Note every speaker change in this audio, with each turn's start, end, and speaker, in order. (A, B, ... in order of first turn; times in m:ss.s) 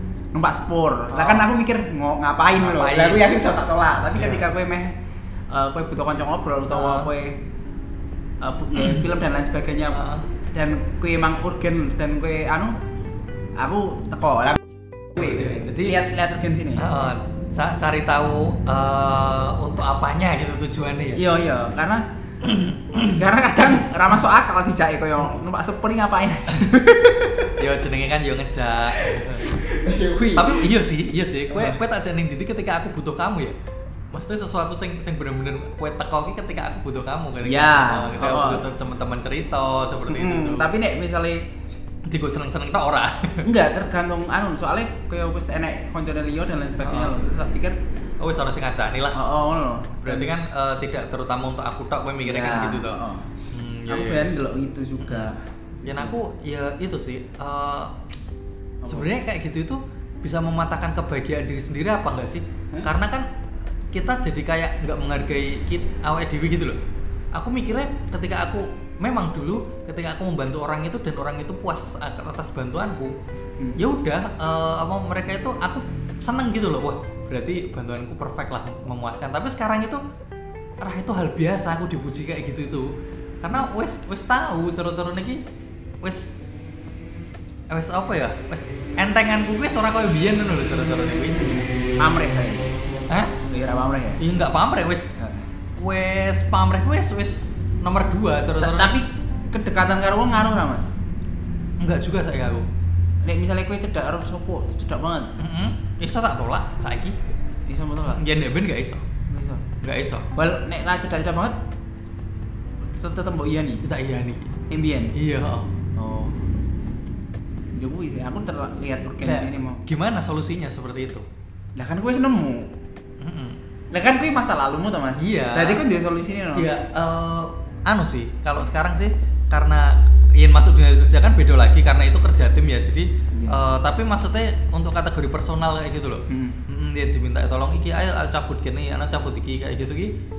0:00.3-0:05.0 A
0:01.1-0:01.5 B
0:02.6-0:03.2 B
0:04.2-0:04.4 B
0:05.5-0:07.4 A
0:06.7-0:07.1 B
0:08.4-0:12.7 A
0:09.9-0:10.3 B
0:13.6-0:14.6 A
0:15.1-0:16.0 B
0:15.2-0:16.9 A
0:16.8-0:21.2 B
0:21.1-0:27.7 A
0:22.7-0:23.1 B
0:27.6-0:29.4 B
0:28.8-0:30.8 A
0:30.4-0:33.5 B
0:31.5-0:31.8 A
0:34.1-0:40.7 B
0:37.4-0:38.7 A
0:40.1-0:41.5 A
0:42.1-0:43.4 B
0:43.4-0:47.8 A
0:46.8-0:47.2 B
0:48.2-0:49.1 B
0:49.1-0:50.4 A
0:50.1-0:52.9 B
0:52.2-0:56.2 A
0:53.5-0:54.3 B
0:55.0-0:55.3 B
0:55.8-0:57.9 B
0:58.8-0:59.1 A
0:58.8-1:03.2 B
1:03.9-1:06.8 B
1:07.3-1:13.1 B
1:13.6-1:13.9 A
1:13.8-1:20.0 B
1:20.8-1:22.9 B
1:23.4-1:25.4 B
1:26.0-1:26.3 B
1:27.7-1:31.6 B
1:32.0-1:32.7 A
1:33.1-1:33.4 B
1:33.4-1:34.3 A
1:34.2-1:35.1 B
1:35.2-1:35.5 A
1:35.8-1:39.0 B
1:38.6-1:40.9 A
1:41.8-1:42.7 B
1:43.2-1:45.3 A
1:45.4-1:47.2 B
1:47.7-1:48.2 A
1:48.1-1:49.0 B
1:49.2-1:49.6 A
1:49.8-1:50.2 B
1:50.3-1:51.6 A
1:52.8-1:53.9 A
1:53.8-1:54.5 B
1:54.7-1:55.2 A
1:55.2-1:55.7 B
1:56.0-1:56.4 A
1:57.7-1:59.8 A
1:59.3-2:01.2 B
2:01.8-2:02.7 A
2:03.2-2:03.6 B
2:03.9-2:06.7 A
2:05.2-2:05.8 B
2:06.6-2:20.1 B
2:13.3-2:13.6 A
2:16.3-2:16.6 A